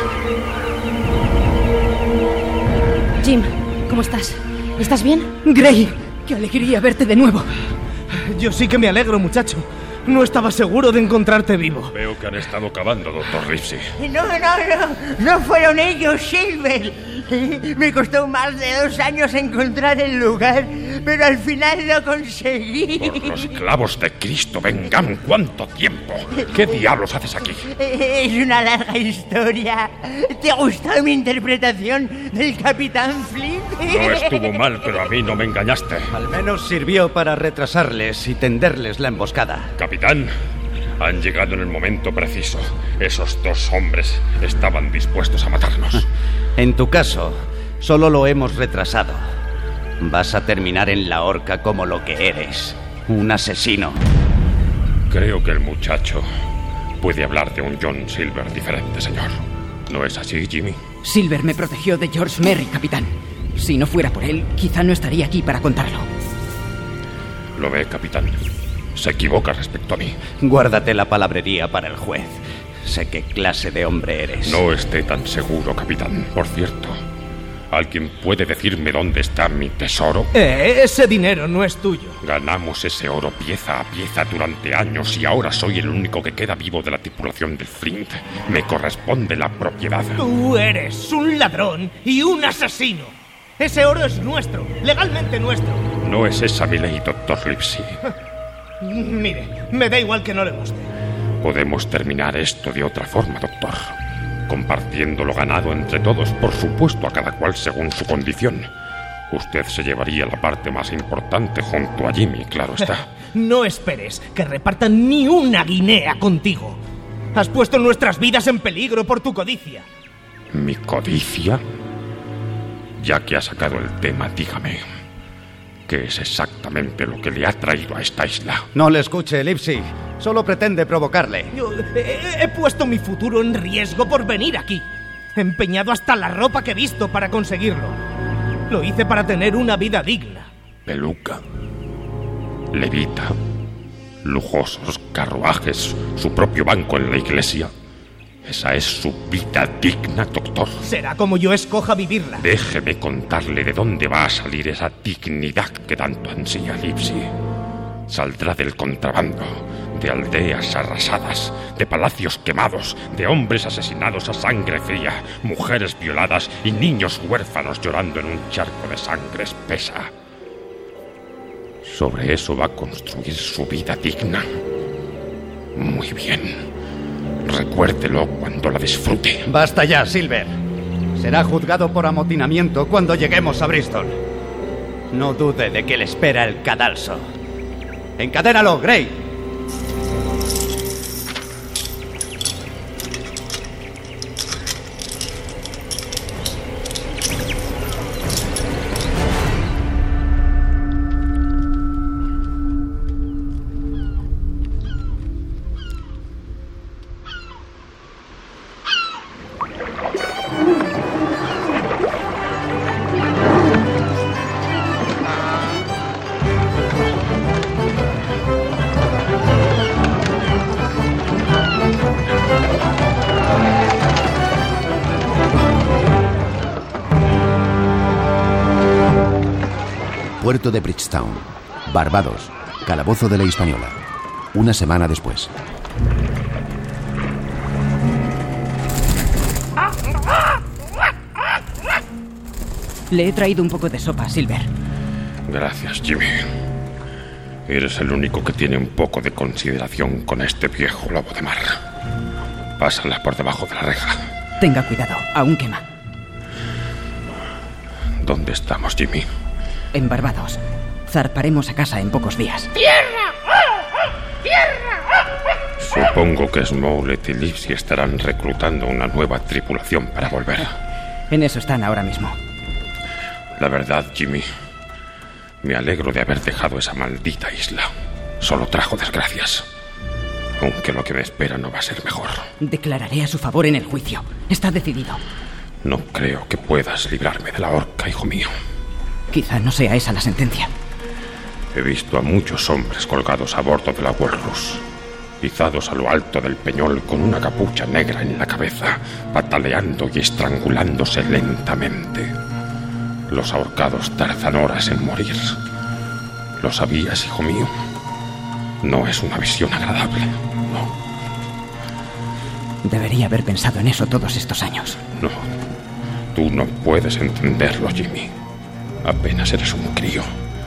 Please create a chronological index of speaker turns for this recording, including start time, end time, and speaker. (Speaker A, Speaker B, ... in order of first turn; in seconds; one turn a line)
Speaker A: 3.2-5.3
Speaker B: 5.4-7.5
Speaker C: 8.3-11.9
Speaker D: 11.9-13.9
Speaker E: 14.0-23.5
Speaker D: 23.0-27.7
Speaker E: 27.7-34.8
Speaker D: 33.8-36.1
Speaker F: 36.1-39.7
Speaker D: 39.8-40.3
Speaker D: 41.0-46.0
Speaker F: 46.6-49.2
Speaker F: 50.0-54.0
Speaker D: 55.1-56.3
Speaker D: 57.0-60.8
Speaker B: 61.0-66.1
Speaker D: 67.6-68.3
Speaker D: 69.0-70.2
Speaker F: 70.4-74.6
Speaker D: 74.4-77.0
Speaker D: 77.7-80.3
Speaker C: 80.3-82.2
Speaker D: 82.2-90.2
Speaker C: 90.2-95.8
Speaker D: 96.0-98.0
Speaker C: 98.8-100.9
Speaker D: 101.4-103.9
Speaker D: 104.5-108.7
Speaker D: 109.3-113.1
Speaker C: 113.3-116.8
Speaker C: 117.3-119.8
Speaker D: 120.5-121.6
Speaker D: 123.0-124.8
Speaker D: 125.9-128.6
Speaker F: 128.8-131.5
Speaker C: 131.5-138.0
Speaker C: 138.7-140.5
Speaker D: 140.9-141.4
Speaker D: 142.7-143.3
Speaker D: 144.2-147.7
Speaker D: 148.4-150.8
Speaker C: 150.8-152.4
Speaker D: 152.4-157.3
Speaker D: 158.1-170.1
Speaker D: 171.8-174.5
Speaker D: 175.8-176.6
Speaker D: 177.4-179.4
Speaker F: 179.5-180.5
Speaker F: 181.2-184.2
Speaker F: 185.1-187.2
Speaker F: 188.2-189.2
Speaker G: 230.4-234.0
Speaker G: 234.5-235.5
Speaker B: 243.1-244.7
Speaker D: 245.5-246.4
Speaker D: 247.7-251.8
Speaker D: 252.8-254.2
Speaker B: 254.6-255.8
Speaker D: 258.2-259.3
Speaker B: 259.9-262.7
Speaker D: 265.8-270.7
Speaker B: 271.3-272.4
Speaker D: 273.6-274.5
Speaker D: 275.6-277.9
Speaker D: 278.4-279.7
Speaker D: 280.6-282.4
Speaker B: 282.6-285.2
Speaker D: 285.8-288.5
Speaker B: 289.3-290.7
Speaker D: 291.7-294.8
Speaker D: 295.4-302.3
Speaker D: 303.3-305.6
Speaker D: 306.6-307.7
Speaker D: 308.8-310.9
Speaker B: 312.9-315.0
Speaker D: 315.2-315.5
Speaker D: 316.4-318.3
Speaker D: 319.0-320.3